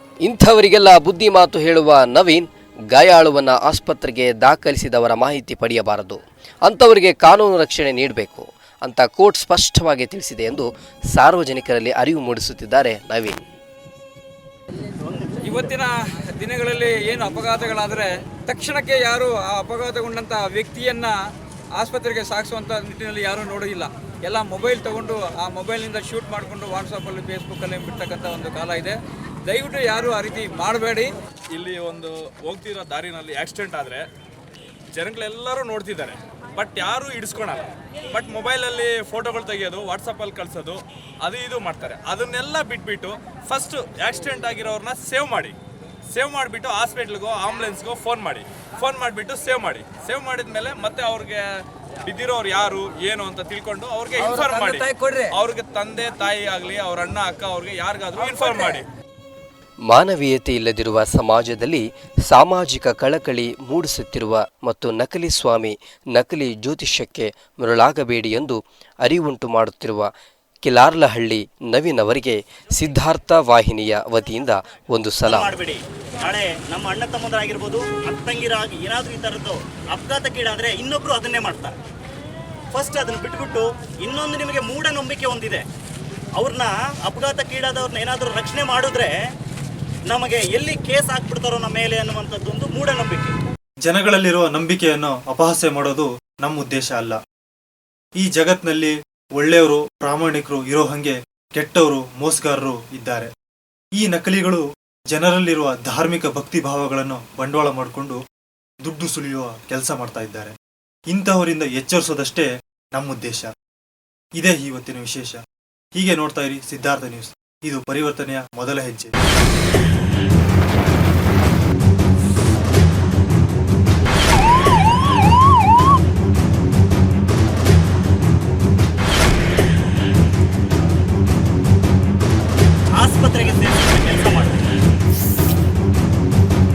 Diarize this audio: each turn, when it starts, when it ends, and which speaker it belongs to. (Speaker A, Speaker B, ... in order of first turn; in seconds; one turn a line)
Speaker A: 0.2-13.4
Speaker B: 15.0-15.3
Speaker C: 15.4-21.2
Speaker C: 21.8-31.1
Speaker D: 31.5-34.1
Speaker D: 34.9-45.5
Speaker D: 46.1-51.4
Speaker D: 52.0-58.8
Speaker C: 54.2-55.3
Speaker C: 58.4-58.8
Speaker A: 59.9-70.1
Speaker A: 70.6-75.5
Speaker B: 75.3-81.7
Speaker B: 82.7-85.6
Speaker B: 86.3-89.1
Speaker B: 90.1-93.3
Speaker E: 93.8-97.2
Speaker E: 98.2-103.3
Speaker E: 104.0-108.2
Speaker E: 108.8-110.5
Speaker E: 111.1-113.5
Speaker E: 114.4-115.4
Speaker E: 116.0-119.2
Speaker B: 132.9-134.7